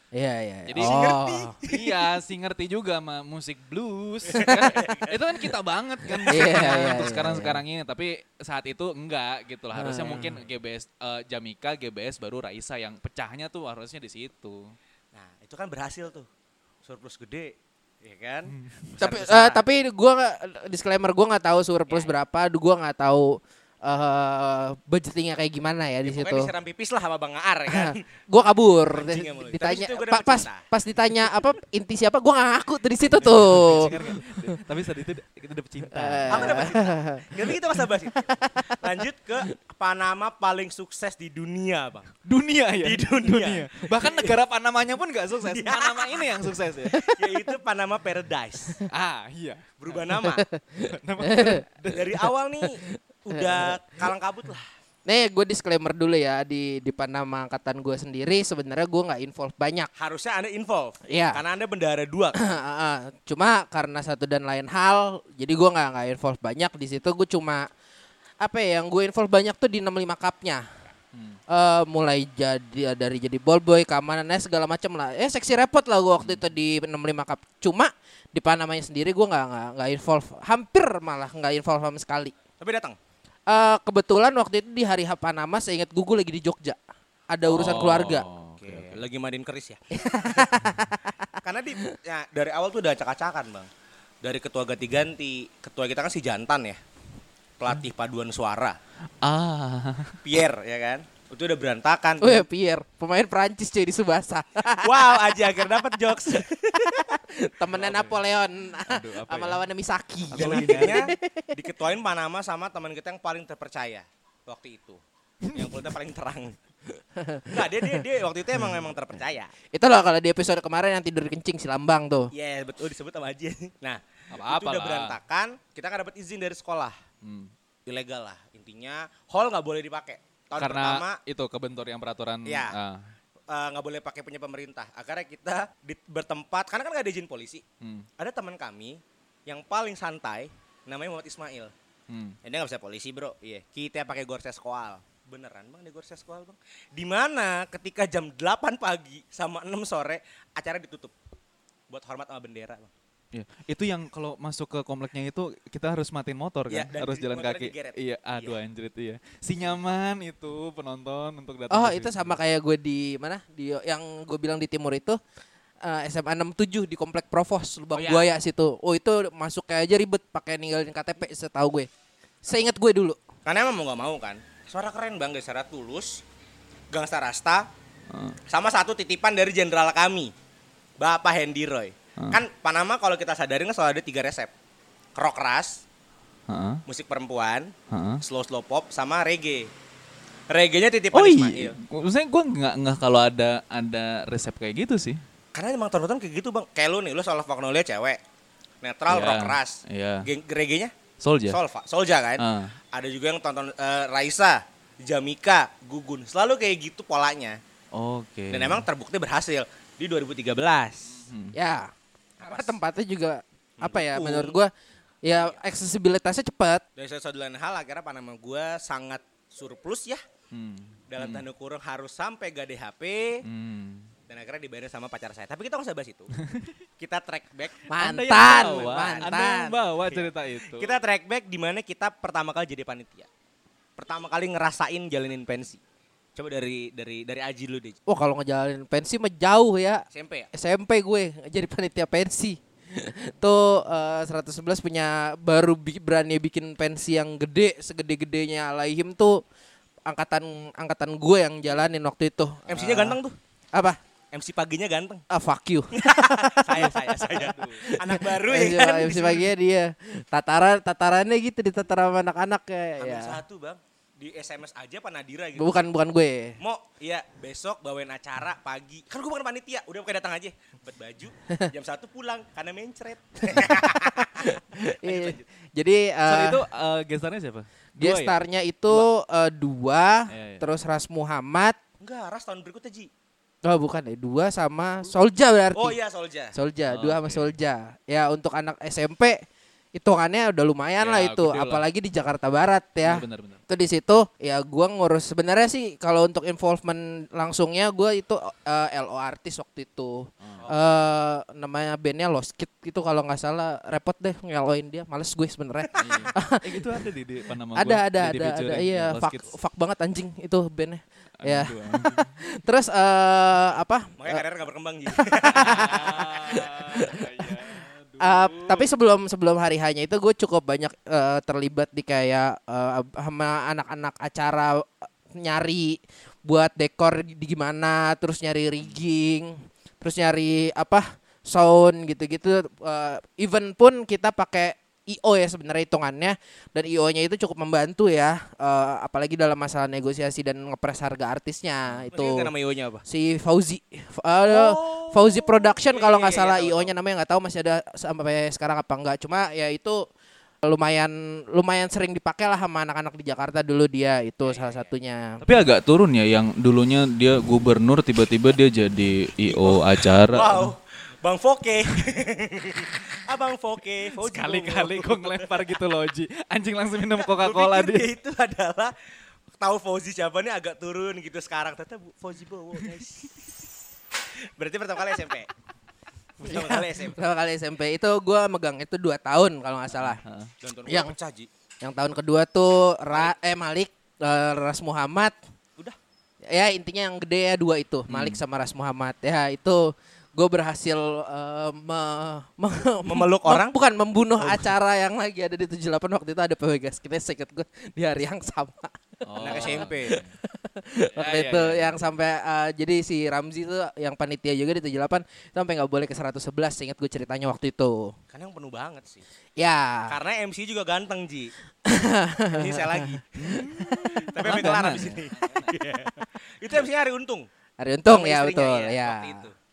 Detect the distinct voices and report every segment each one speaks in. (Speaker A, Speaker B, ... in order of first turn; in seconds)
Speaker A: 0.1-1.6, 4.4-4.7, 6.2-7.6, 9.7-10.4, 19.0-26.5, 27.7-34.6, 35.9-38.9, 46.9-47.3, 50.2-51.6, 52.8-53.8, 55.1-59.9, 61.1-61.4, 62.4-67.7, 68.4-70.7, 71.5-82.3, 83.5-86.8, 87.3-88.2, 89.9-91.2, 102.2-111.6, 117.2-118.0, 119.7-122.3, 161.7-165.2, 165.8-171.9, 172.4-173.2, 211.5-214.7, 215.2-216.8, 227.9-229.8, 238.1-249.4, 250.1-253.2, 253.7-254.0, 255.3-263.4, 265.6-266.6, 273.5-276.6, 278.0-281.8, 283.6-286.0, 286.5-289.4, 289.9-307.0, 307.8-314.4, 315.1-317.6, 318.2-342.5, 343.1-350.1, 350.6-355.4, 376.4-380.2, 380.9-381.1, 381.8-385.4, 386.5-408.1, 409.6-410.1, 411.9-414.7, 417.8-419.4
Speaker B: 0.7-14.8, 18.5-18.9, 33.1-36.7, 42.2-47.0, 48.9-49.8, 50.9-52.3, 71.1-71.4, 76.2-76.5, 87.5-89.0, 99.2-100.2, 107.7-108.2, 108.9-109.6, 110.3-111.0, 115.5-115.8, 124.3-125.2, 127.2-127.5, 130.6-133.1, 137.8-138.1, 142.1-142.4, 153.3-162.4, 178.1-178.4, 186.5-186.8, 187.9-188.2, 191.1-195.2, 199.1-200.3, 201.2-201.6, 202.4-202.8, 207.9-208.9, 211.1-211.6, 220.5-221.4, 223.4-224.1, 226.4-226.8, 227.9-231.0, 257.3-257.8, 276.3-278.4, 280.3-280.6, 286.9-287.5, 291.0-291.9, 293.0-293.6, 300.4-300.7, 305.9-309.5, 311.4-312.4, 315.6-318.9, 355.4-360.7, 364.2-368.1, 380.0-380.5, 388.1-388.4, 399.3-400.4, 401.1-402.1, 413.4-415.8
Speaker C: 0.8-2.1, 4.3-5.5, 6.3-6.7, 15.1-16.3, 16.8-19.6, 21.9-22.2, 26.1-28.0, 28.9-30.6, 36.3-42.1, 42.8-44.4, 45.4-48.8, 49.8-50.5, 51.9-54.7, 60.0-62.5, 82.6-83.0, 88.6-89.8, 91.4-93.7, 94.2-96.8, 97.6-98.8, 100.2-102.5, 104.8-107.2, 110.3-115.0, 115.5-116.6, 117.5-119.5, 122.3-127.0, 127.9-131.2, 132.5-132.8, 133.5-137.6, 138.2-141.7, 142.4-151.1, 151.9-152.9, 156.7-158.6, 167.9-168.3, 173.4-176.2, 176.9-177.7, 178.5-180.3, 181.0-184.5, 185.2-185.8, 186.9-189.7, 190.5-191.8, 195.5-198.2, 198.8-200.9, 201.5-207.6, 208.5-211.2, 212.4-212.8, 213.8-214.6, 215.3-215.6, 217.0-220.2, 221.1-223.4, 224.3-226.3, 227.0-227.8, 228.4-229.4, 230.1-233.3, 234.0-235.8, 236.4-238.0, 240.1-240.5, 252.7-253.4, 254.3-255.2, 255.9-259.5, 263.0-265.7, 266.6-275.4, 282.0-283.1, 285.8-286.6, 300.6-300.9, 306.0-306.2, 314.2-316.3, 342.1-343.0, 344.4-346.9, 354.4-354.9, 359.4-365.7, 367.2-368.9, 369.6-373.7, 374.3-375.5, 376.4-377.2, 380.6-381.5, 393.1-393.8, 394.4-394.7, 399.4-400.2, 408.3-409.2, 410.1-411.5, 412.5-413.3, 414.3-417.5, 418.1-419.6